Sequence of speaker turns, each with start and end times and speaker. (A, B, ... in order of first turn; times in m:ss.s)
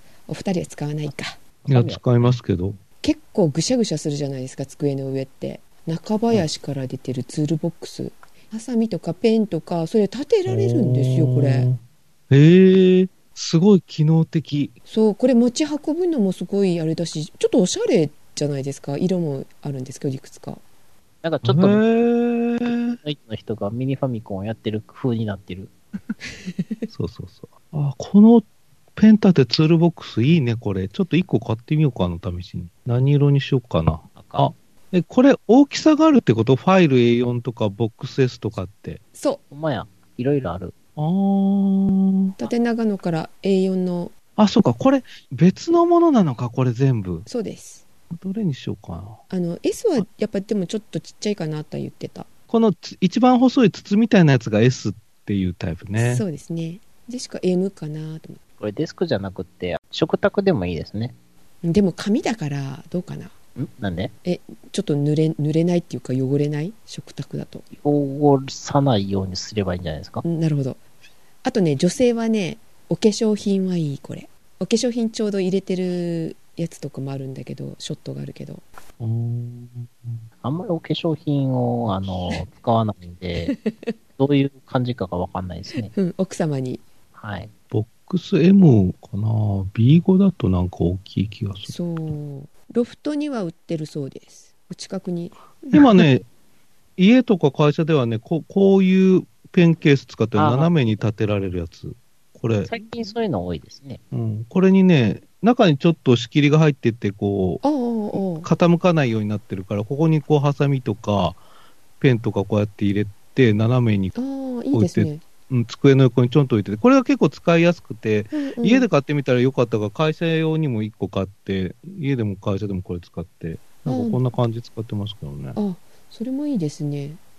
0:00.3-0:01.4 A
0:01.0-0:02.4 B
0:01.7-0:02.8 C
0:03.0-0:11.7 A
0:10.5-0:14.8 C
0:14.8-0:20.6 A
0:21.2-0:21.8 B
0:21.4-0:23.0 C
0:22.6-0:25.7 B
0:26.4-0:26.9 A
0:26.9-0:39.0 C
0:34.1-0:34.5 B
0:39.1-0:39.4 A
0:39.5-0:40.7 B
0:41.0-0:42.3 C
0:42.4-0:44.1 A
0:44.4-0:47.2 C
0:47.2-0:47.8 A
0:48.1-0:49.2 C
0:49.3-0:52.3 A
0:52.5-0:56.2 C
0:56.0-0:58.4 A
0:58.6-1:01.1 B
1:01.6-1:03.3 A
1:03.6-1:04.1 B
1:04.2-1:07.6 A
1:07.7-1:10.2 B
1:10.2-1:10.8 A
1:11.4-1:18.6 A
1:19.0-1:20.2 C
1:20.4-1:23.5 B
1:23.4-1:23.9 A
1:24.2-1:25.9 B
1:25.9-1:26.8 A
1:27.2-1:27.5 B
1:27.7-1:31.8 C
1:31.6-1:35.8 A
1:35.7-1:36.2 C
1:37.0-1:42.7 C
1:40.4-1:41.0 B
1:42.6-1:44.0 B
1:44.1-1:47.6 C
1:47.6-1:48.5 A
1:48.1-1:51.4 C
1:52.0-1:54.1 C
1:54.1-1:55.2 A
1:54.7-2:05.6 C
1:58.3-1:58.9 A
2:03.9-2:04.2 A
2:05.5-2:07.2 A